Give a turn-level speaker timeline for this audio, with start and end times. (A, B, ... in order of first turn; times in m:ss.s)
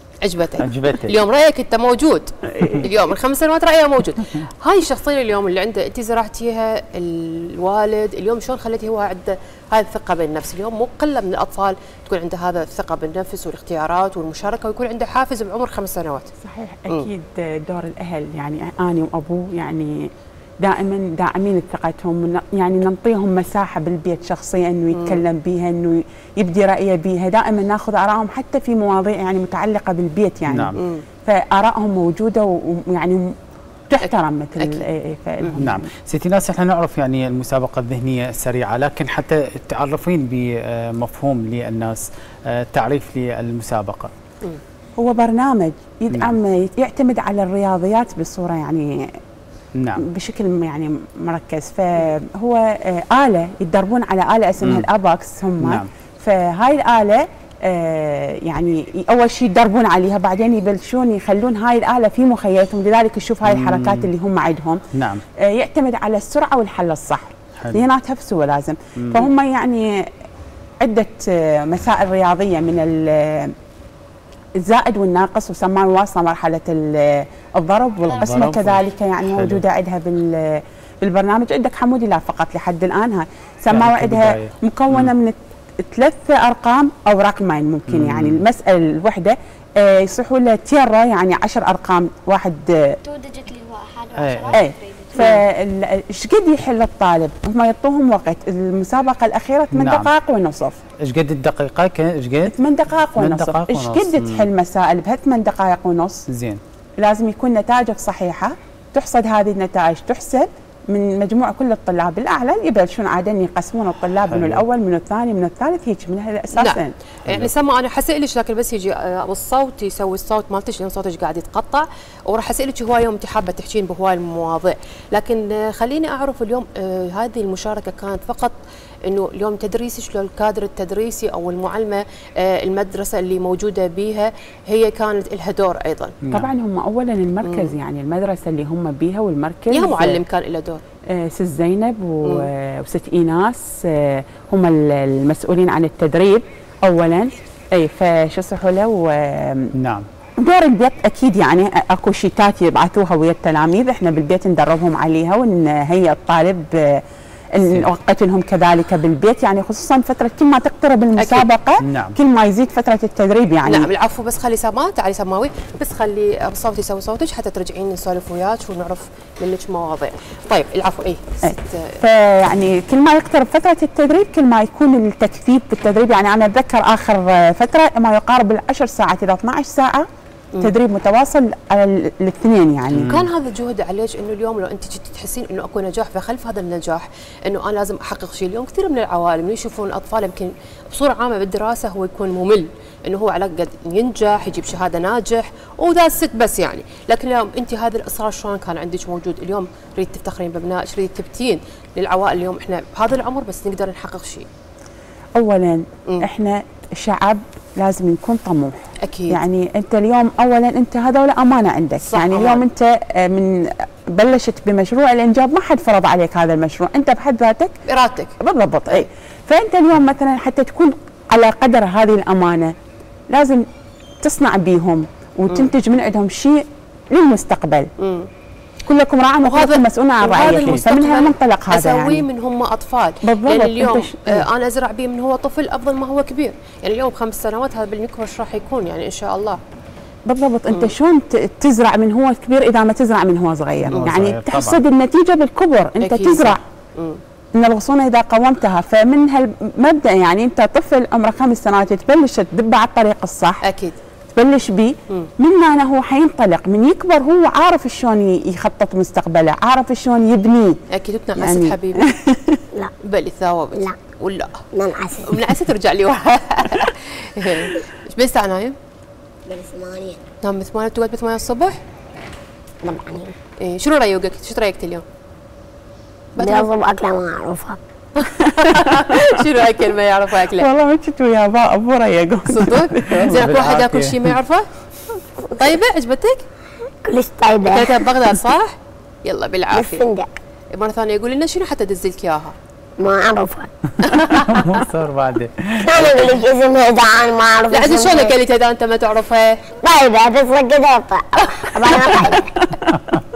0:00.2-0:16.3 A
0:00.6-0:01.2 B
0:16.4-0:20.1 C
0:20.6-0:33.3 C
0:24.9-0:25.2 A
0:30.5-0:30.8 B
0:30.8-0:31.0 A
0:33.9-0:35.9 C
0:34.0-0:34.8 A
0:35.6-0:44.1 B
0:45.0-0:49.1 C
0:46.1-0:46.4 B
0:49.7-0:50.0 B
0:50.0-1:04.8 C
0:55.6-0:55.9 B
1:03.4-1:04.1 B
1:05.0-1:05.2 B
1:05.4-1:10.0 C
1:09.0-1:09.3 B
1:10.8-1:13.5 C
1:14.6-1:33.0 C
1:18.1-1:18.9 D
1:18.1-1:19.6 B
1:23.7-1:25.1 B
1:27.9-1:28.4 B
1:33.0-1:35.4 D
1:34.2-1:34.6 B
1:34.5-1:40.8 C
1:39.7-1:40.1 B
1:41.0-1:42.5 B
1:42.5-1:46.2 C
1:43.1-1:44.5 B
1:46.3-1:46.6 B
1:47.0-1:56.9 C
1:54.2-1:54.6 B
1:56.6-2:16.1 A
1:57.3-1:57.5 B
2:16.2-2:16.5 B
2:16.3-2:20.2 C
2:17.4-2:17.7 A
2:19.7-2:20.8 A
2:21.1-2:29.7 C
2:29.8-2:30.1 B
2:30.4-2:37.0 C
2:37.5-2:43.9 C
2:37.6-2:37.9 B
2:41.2-2:41.5 A
2:41.8-2:42.2 B
2:43.6-2:52.0 A
2:51.4-3:00.0 C
3:00.6-3:03.2 C
3:02.9-3:03.3 B
3:03.0-3:24.5 A
3:25.4-3:37.8 C
3:29.0-3:29.4 A
3:32.0-3:32.6 A
3:37.9-3:38.3 A
3:38.4-3:42.7 C
3:43.3-3:43.6 C
3:44.2-3:47.9 C
3:48.0-3:48.3 A
3:48.8-3:52.2 C
3:49.4-3:59.6 A
3:53.2-3:54.5 C
4:00.2-4:06.6 C
4:03.9-4:04.8 B
4:06.0-4:07.2 A
4:07.5-4:13.6 C
4:13.6-4:14.0 A
4:14.3-4:20.8 C
4:20.9-4:22.1 A
4:21.4-4:22.6 C
4:23.0-4:24.6 A
4:24.7-4:25.3 E
4:25.2-4:28.8 A
4:29.4-4:30.2 E
4:30.4-4:31.8 A
4:32.8-4:33.3 E
4:33.6-4:35.0 A
4:36.4-4:36.7 A
4:36.4-4:37.8 E
4:38.2-4:40.6 A
4:40.5-4:43.4 C
4:42.5-4:44.6 A
4:43.2-4:44.3 B
4:45.5-4:46.4 A
4:47.0-4:48.0 E
4:47.7-4:50.0 A
4:49.7-4:50.4 E
4:50.7-4:52.5 A
4:53.0-4:53.7 E
4:54.0-4:56.4 B
4:54.0-4:54.7 A
4:55.8-4:58.4 E
4:57.7-4:59.6 A
4:59.8-5:02.6 E
5:02.9-5:03.2 B